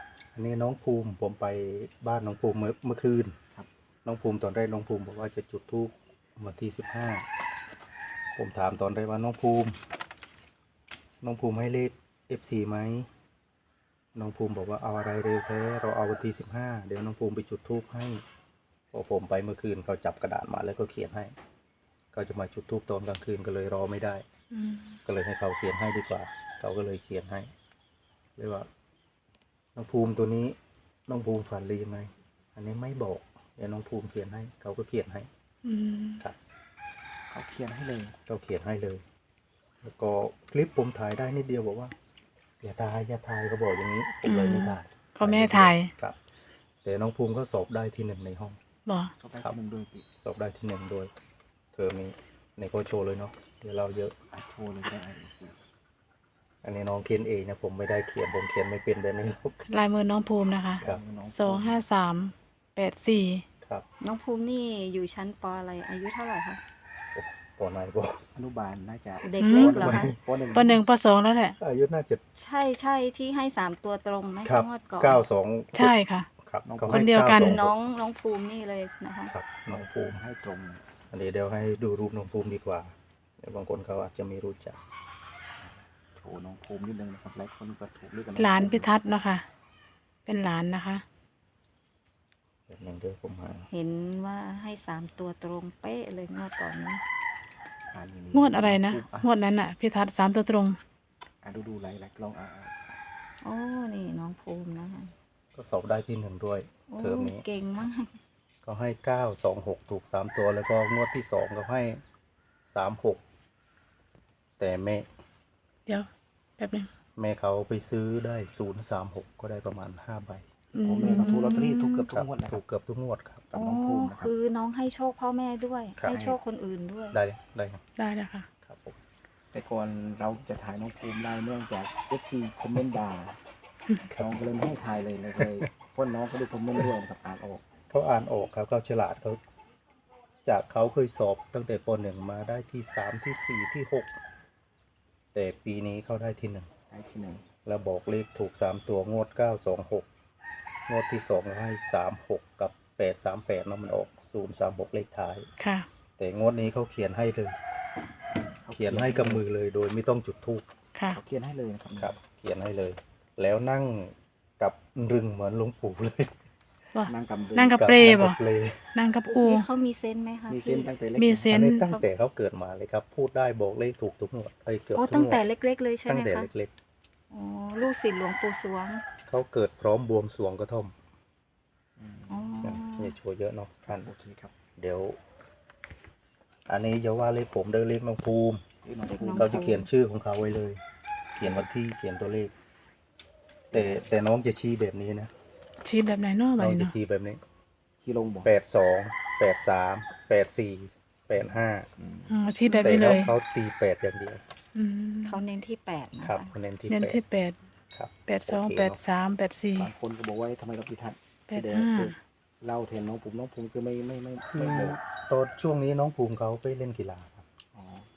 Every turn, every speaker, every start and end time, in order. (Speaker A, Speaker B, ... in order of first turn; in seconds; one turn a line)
Speaker A: 0.3-3.4
Speaker A: 4.0-7.3
Speaker A: 8.4-9.8
Speaker A: 11.2-13.1
Speaker A: 14.2-18.2
Speaker A: 18.9-21.3
Speaker A: 22.1-24.2
Speaker B: 24.5-25.0
Speaker A: 25.1-27.5
Speaker A: 28.4-28.7
Speaker A: 29.7-35.3
Speaker B: 35.6-36.2
Speaker C: 37.3-38.1
Speaker A: 38.3-39.0
Speaker A: 39.8-42.0
Speaker A: 42.6-46.2
Speaker B: 44.2-45.9
Speaker A: 46.8-48.6
Speaker B: 48.9-49.1
Speaker C: 49.2-50.0
Speaker A: 50.2-51.1
Speaker A: 51.7-54.1
Speaker C: 54.3-55.6
Speaker A: 56.6-59.7
Speaker B: 59.7-63.4
Speaker C: 60.8-61.8
Speaker D: 64.0-66.6
Speaker A: 67.1-68.2
Speaker C: 68.3-70.8
Speaker D: 69.2-70.1
Speaker B: 69.4-69.8
Speaker A: 69.5-70.2
Speaker B: 70.5-71.5
Speaker A: 71.6-72.2
Speaker D: 72.4-75.2
Speaker A: 74.4-77.7
Speaker B: 75.7-76.3
Speaker C: 76.6-77.2
Speaker B: 76.9-77.6
Speaker D: 77.2-79.3
Speaker A: 79.3-80.2
Speaker C: 79.7-80.8
Speaker A: 81.1-84.8
Speaker C: 85.6-88.9
Speaker B: 88.4-89.4
Speaker B: 90.2-91.0
Speaker A: 92.7-93.7
Speaker D: 93.7-97.0
Speaker C: 97.9-99.3
Speaker B: 98.3-100.8
Speaker C: 101.4-103.0
Speaker D: 103.4-105.1
Speaker A: 105.5-107.4
Speaker D: 106.9-108.2
Speaker A: 108.6-112.0
Speaker A: 112.7-113.2
Speaker A: 114.6-115.1
Speaker B: 116.6-116.9
Speaker A: 117.2-120.4
Speaker B: 120.7-121.6
Speaker C: 120.8-122.6
Speaker D: 121.2-122.0
Speaker A: 122.1-123.5
Speaker C: 123.5-124.3
Speaker D: 123.5-127.2
Speaker C: 126.1-126.4
Speaker A: 127.1-127.8
Speaker B: 128.0-128.5
Speaker A: 128.6-129.0
Speaker C: 129.5-133.4
Speaker A: 134.1-134.4
Speaker C: 134.2-137.7
Speaker A: 135.4-135.7
Speaker A: 137.9-139.4
Speaker A: 140.4-144.1
Speaker A: 145.3-146.7
Speaker C: 146.9-147.4
Speaker A: 147.7-150.1
Speaker A: 150.9-155.5
Speaker B: 155.6-155.9
Speaker A: 156.2-157.6
Speaker C: 158.6-159.5
Speaker A: 158.7-160.7
Speaker C: 161.1-162.2
Speaker A: 162.0-166.3
Speaker B: 166.9-168.4
Speaker C: 167.1-167.8
Speaker A: 167.8-168.9
Speaker B: 168.9-169.7
Speaker D: 169.4-170.9
Speaker C: 170.5-171.6
Speaker B: 171.2-171.9
Speaker A: 171.5-175.4
Speaker D: 174.9-176.5
Speaker A: 176.1-176.7
Speaker D: 177.3-179.0
Speaker A: 179.3-180.9
Speaker C: 182.0-182.6
Speaker D: 182.3-183.1
Speaker A: 182.6-184.1
Speaker C: 183.9-184.6
Speaker A: 184.8-185.2
Speaker A: 186.7-188.6
Speaker C: 188.8-189.8
Speaker D: 189.1-189.8
Speaker A: 189.3-190.8
Speaker C: 191.4-191.7
Speaker A: 191.4-192.5
Speaker C: 193.7-194.1
Speaker A: 193.7-195.3
Speaker B: 195.8-196.9
Speaker A: 196.6-197.4
Speaker C: 198.0-198.5
Speaker A: 198.4-201.9
Speaker C: 201.4-202.4
Speaker B: 202.3-203.3
Speaker A: 202.7-204.4
Speaker B: 204.8-205.4
Speaker D: 205.2-206.6
Speaker A: 206.2-207.2
Speaker B: 206.9-207.6
Speaker A: 207.9-209.0
Speaker B: 208.3-209.9
Speaker C: 209.8-215.0
Speaker B: 211.5-212.2
Speaker A: 214.5-217.4
Speaker C: 217.8-218.1